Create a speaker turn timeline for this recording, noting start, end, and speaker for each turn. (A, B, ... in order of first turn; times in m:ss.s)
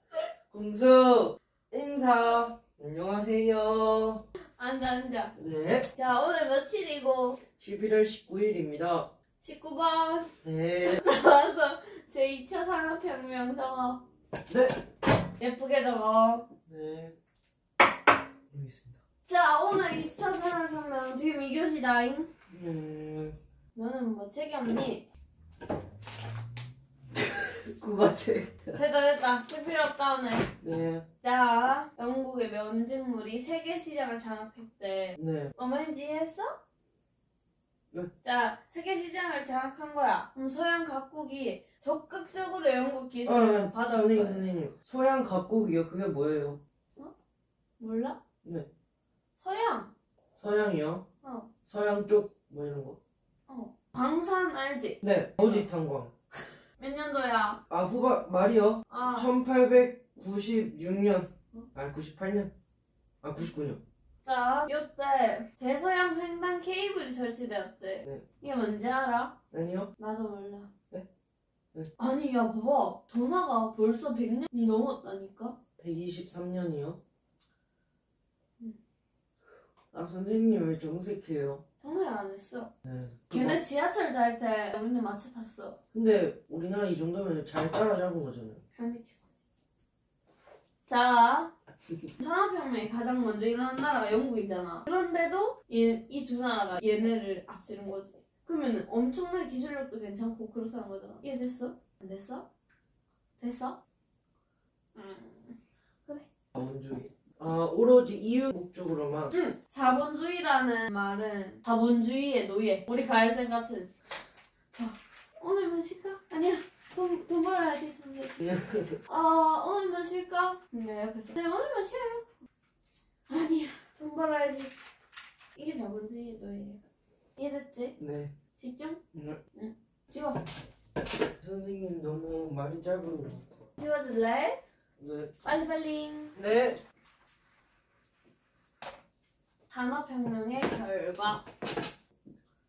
0:00.5-0:04.2 A
0:04.6-0:05.3 B
0:05.4-0:05.9 A
0:05.9-0:07.4 B
0:07.6-0:09.1 A
0:09.4-0:10.3 B
0:10.4-0:11.0 A
0:10.9-0:14.0 B
0:14.5-0:14.8 A
0:15.4-0:16.4 B
0:16.7-0:17.1 A
0:18.5-0:19.0 A
0:19.3-0:22.3 B
0:22.5-0:23.4 A
0:23.7-0:25.1 B
0:27.2-0:28.8 A
0:28.7-0:30.5 B
0:30.6-0:31.0 A
0:31.2-0:36.5 B
0:35.2-0:35.5 A
0:38.2-0:44.4 B
0:43.2-0:46.6 A
0:47.8-0:48.2 B
0:49.4-0:49.9 B
0:50.4-0:51.0 A
0:51.2-0:51.5 B
0:51.6-0:53.0 A
0:53.5-0:55.6 B
0:55.0-0:56.1 A
0:56.8-0:57.6 B
0:57.7-1:02.5 A
0:58.9-0:59.3 B
1:03.2-1:03.8 A
1:04.2-1:09.3 B
1:09.5-1:09.9 A
1:10.0-1:10.7 B
1:12.0-1:15.6 B
1:15.8-1:17.0 A
1:19.9-1:21.6 A
1:21.8-1:22.7 B
1:22.8-1:23.6 A
1:23.3-1:25.8 B
1:25.9-1:28.6 A
1:28.8-1:29.2 B
1:30.9-1:31.5 B
1:32.2-1:42.4 B
1:43.4-1:43.8 B
1:44.9-1:46.3 B
1:46.5-1:49.3 A
1:49.3-1:53.9 B
1:54.7-1:58.4 B
1:58.4-1:59.0 A
1:59.1-2:02.2 B
2:03.3-2:04.7 B
2:05.6-2:06.8 B
2:07.4-2:08.0 B
2:08.0-2:08.3 A
2:08.6-2:09.0 B
2:09.1-2:09.4 A
2:09.5-2:10.4 B
2:11.4-2:13.5 A
2:13.8-2:14.6 B
2:15.0-2:15.3 A
2:15.4-2:16.4 B
2:16.4-2:16.8 A
2:19.7-2:21.4 B